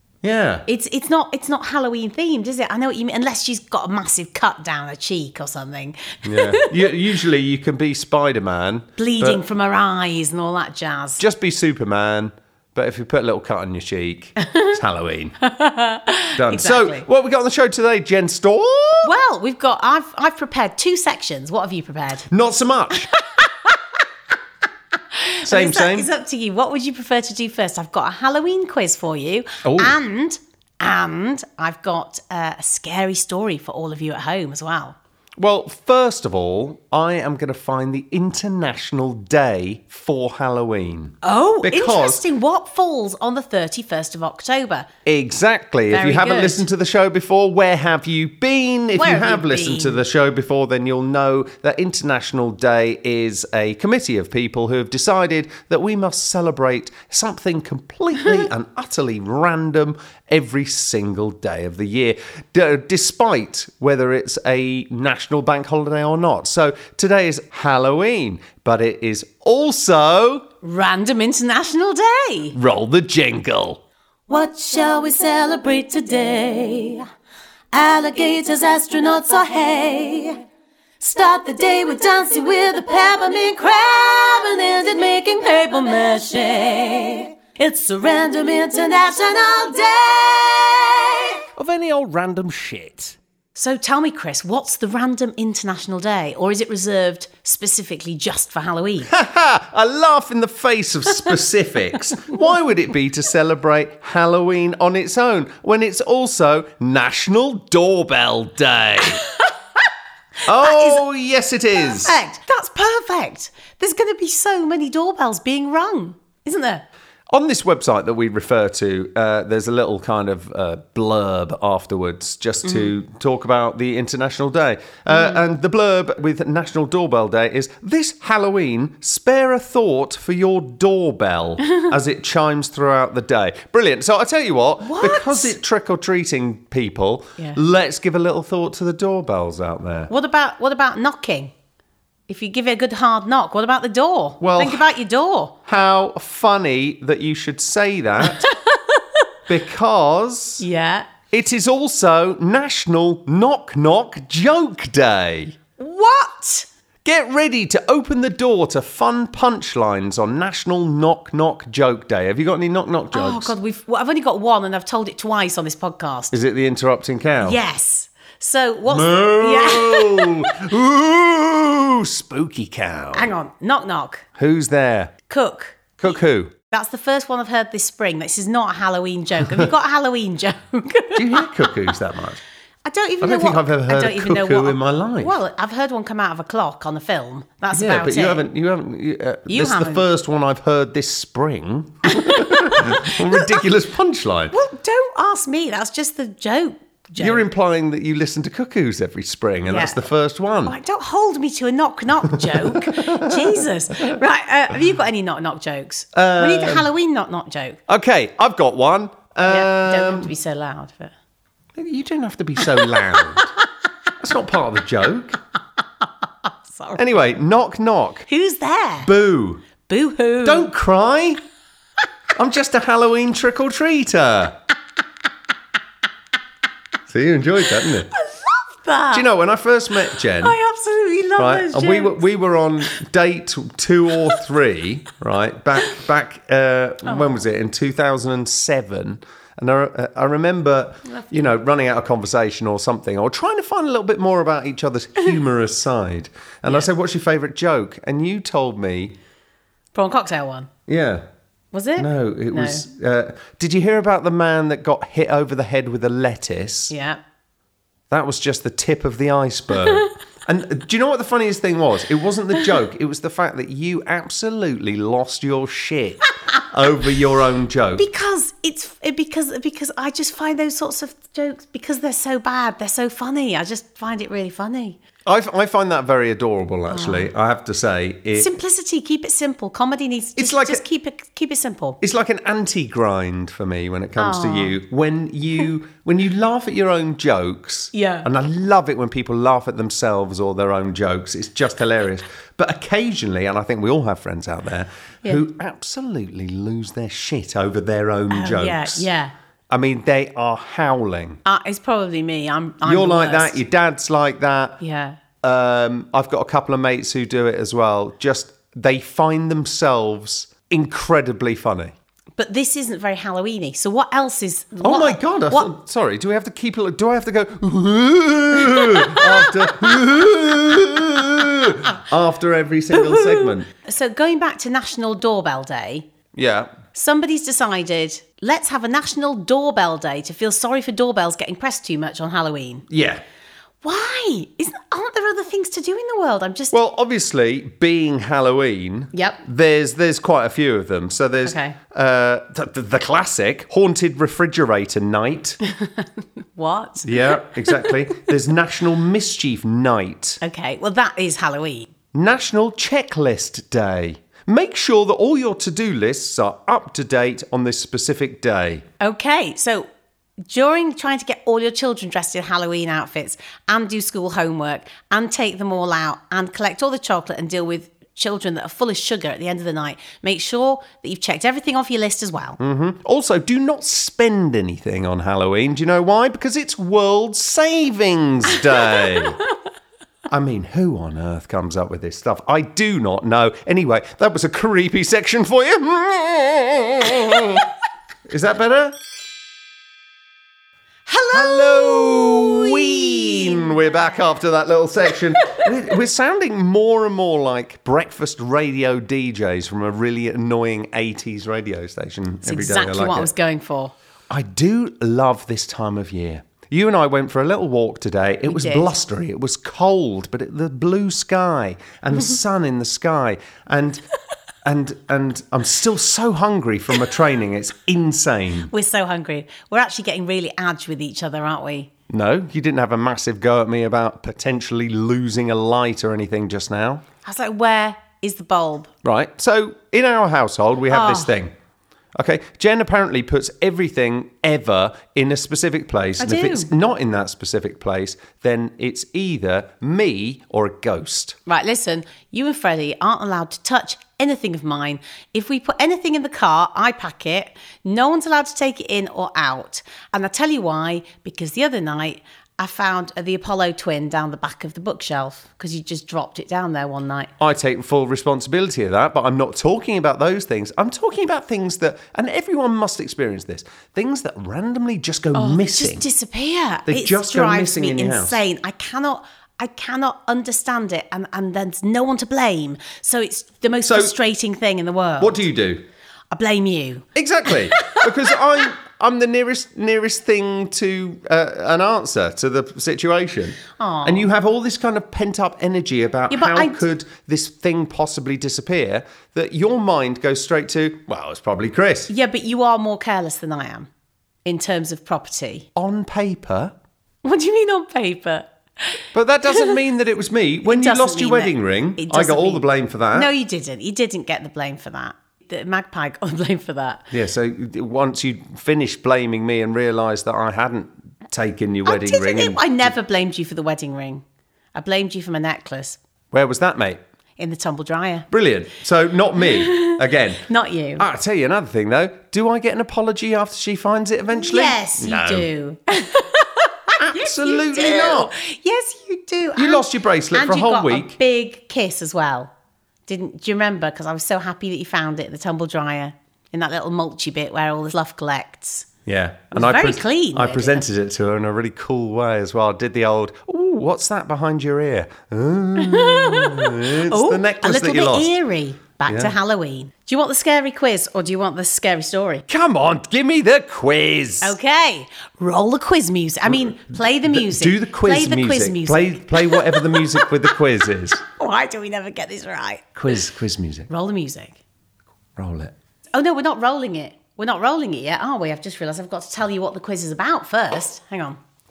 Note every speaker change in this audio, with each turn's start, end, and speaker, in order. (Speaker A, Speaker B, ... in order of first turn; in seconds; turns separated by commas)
Speaker A: 0.2-0.7, Speaker B: 0.7-6.8, Speaker A: 6.2-9.4, Speaker B: 9.0-11.2, Speaker A: 11.2-15.3, Speaker B: 14.4-14.7, Speaker B: 15.4-17.1, Speaker A: 16.4-19.1, Speaker B: 19.0-22.3, Speaker A: 22.3-23.1, Speaker B: 25.1-35.0, Speaker A: 25.4-26.1, Speaker A: 29.6-30.0, Speaker A: 35.4-42.2, Speaker B: 41.2-44.9, Speaker A: 45.0-70.5, Speaker B: 45.9-46.6, Speaker B: 49.0-50.0, Speaker B: 70.6-72.6, Speaker A: 72.5-73.8, Speaker B: 74.3-77.1, Speaker B: 77.7-80.4, Speaker B: 81.0-91.4, Speaker A: 91.6-93.2, Speaker B: 93.5-99.1, Speaker A: 99.1-109.2, Speaker A: 110.4-112.2, Speaker B: 110.5-111.0, Speaker B: 111.7-116.8, Speaker A: 117.3-140.1, Speaker B: 122.6-122.9, Speaker B: 125.1-125.4, Speaker B: 134.8-135.5, Speaker B: 140.1-141.5, Speaker B: 142.3-145.6, Speaker A: 144.4-144.8, Speaker A: 145.7-148.5, Speaker B: 148.2-149.2, Speaker A: 149.5-150.6, Speaker B: 150.6-151.1, Speaker A: 151.3-155.6, Speaker B: 155.8-156.7, Speaker A: 157.0-163.5, Speaker B: 163.1-166.3, Speaker A: 166.3-167.6, Speaker B: 167.4-170.6, Speaker A: 168.9-173.3, Speaker B: 173.1-174.2, Speaker A: 174.4-175.1, Speaker B: 175.3-176.2, Speaker A: 176.0-176.5, Speaker B: 176.7-181.8, Speaker A: 181.1-182.4, Speaker B: 182.8-188.5, Speaker A: 183.2-185.4, Speaker A: 187.7-194.5, Speaker B: 189.5-190.0, Speaker B: 192.1-193.6, Speaker B: 194.5-197.4, Speaker A: 197.2-200.7, Speaker B: 199.7-200.0, Speaker B: 200.6-207.8, Speaker A: 202.3-204.2, Speaker A: 206.1-206.9, Speaker A: 207.9-210.3, Speaker B: 209.4-211.1, Speaker A: 211.8-213.5, Speaker B: 212.6-213.5, Speaker A: 214.2-215.4, Speaker B: 216.4-217.0, Speaker A: 216.9-218.2, Speaker B: 218.3-219.1, Speaker A: 219.0-219.7, Speaker B: 219.9-220.7, Speaker A: 220.4-221.4, Speaker A: 222.3-224.6, Speaker A: 227.1-228.1, Speaker B: 227.9-229.3, Speaker A: 229.1-230.5, Speaker B: 230.4-232.2, Speaker A: 231.4-249.2, Speaker B: 237.0-237.4, Speaker B: 249.9-250.7, Speaker A: 250.9-251.2, Speaker B: 251.7-252.8, Speaker A: 252.0-256.9, Speaker B: 256.9-257.2, Speaker A: 258.1-268.1, Speaker B: 267.9-275.0, Speaker A: 275.2-278.5, Speaker B: 276.9-277.3, Speaker B: 278.3-282.0, Speaker A: 280.4-280.8, Speaker A: 282.0-299.1, Speaker B: 284.2-284.8, Speaker B: 287.9-288.3, Speaker B: 298.3-299.3, Speaker A: 299.7-301.4, Speaker B: 301.4-303.6, Speaker A: 302.8-304.8, Speaker B: 304.8-305.2, Speaker A: 305.4-311.9, Speaker B: 312.4-315.7, Speaker A: 314.8-323.7, Speaker B: 318.7-320.0, Speaker B: 322.9-326.1, Speaker A: 326.3-326.7, Speaker B: 326.9-332.9, Speaker A: 332.9-333.2, Speaker B: 333.8-336.7, Speaker A: 336.7-345.6, Speaker B: 339.1-339.4, Speaker B: 341.4-341.8, Speaker B: 345.6-347.9, Speaker A: 347.0-350.4, Speaker B: 350.4-351.9, Speaker A: 352.1-358.8, Speaker B: 359.0-359.9, Speaker B: 360.5-372.6, Speaker A: 372.6-379.4, Speaker B: 378.9-379.2, Speaker A: 380.3-387.7, Speaker A: 388.3-388.9, Speaker B: 391.1-393.8, Speaker A: 391.3-403.3, Speaker B: 402.4-403.9, Speaker A: 404.3-414.0, Speaker B: 408.5-408.9, Speaker A: 414.6-418.7, Speaker B: 418.7-421.9, Speaker A: 422.1-427.0, Speaker B: 427.2-428.9, Speaker A: 429.0-431.5, Speaker B: 430.9-431.3, Speaker A: 432.1-441.4, Speaker B: 436.2-436.7, Speaker B: 441.4-457.3, Speaker A: 457.4-466.1, Speaker B: 465.3-475.4, Speaker A: 466.9-468.4, Speaker A: 473.8-474.1, Speaker A: 475.2-475.8, Speaker B: 476.3-478.1, Speaker A: 477.1-492.1, Speaker B: 483.8-484.3, Speaker B: 486.3-486.8, Speaker B: 492.1-493.9, Speaker B: 494.4-495.7, Speaker A: 495.8-496.7, Speaker B: 497.2-499.0, Speaker A: 499.1-503.3, Speaker B: 499.5-499.7, Speaker B: 500.6-507.1, Speaker A: 507.1-512.9, Speaker B: 511.8-514.2, Speaker B: 514.7-516.0, Speaker A: 516.3-517.0, Speaker B: 517.4-518.3, Speaker A: 518.3-520.5, Speaker B: 519.4-521.0, Speaker A: 521.0-525.5, Speaker B: 524.3-532.5, Speaker A: 527.0-528.3, Speaker A: 529.5-531.1, Speaker B: 533.1-538.9, Speaker A: 539.0-548.4, Speaker B: 539.5-540.8, Speaker B: 545.8-552.4, Speaker A: 549.1-549.3, Speaker A: 552.5-554.5, Speaker B: 554.4-560.5, Speaker A: 556.5-561.2, Speaker B: 561.2-562.9, Speaker A: 563.0-563.9, Speaker B: 563.9-564.6, Speaker A: 565.4-565.7, Speaker B: 566.1-571.4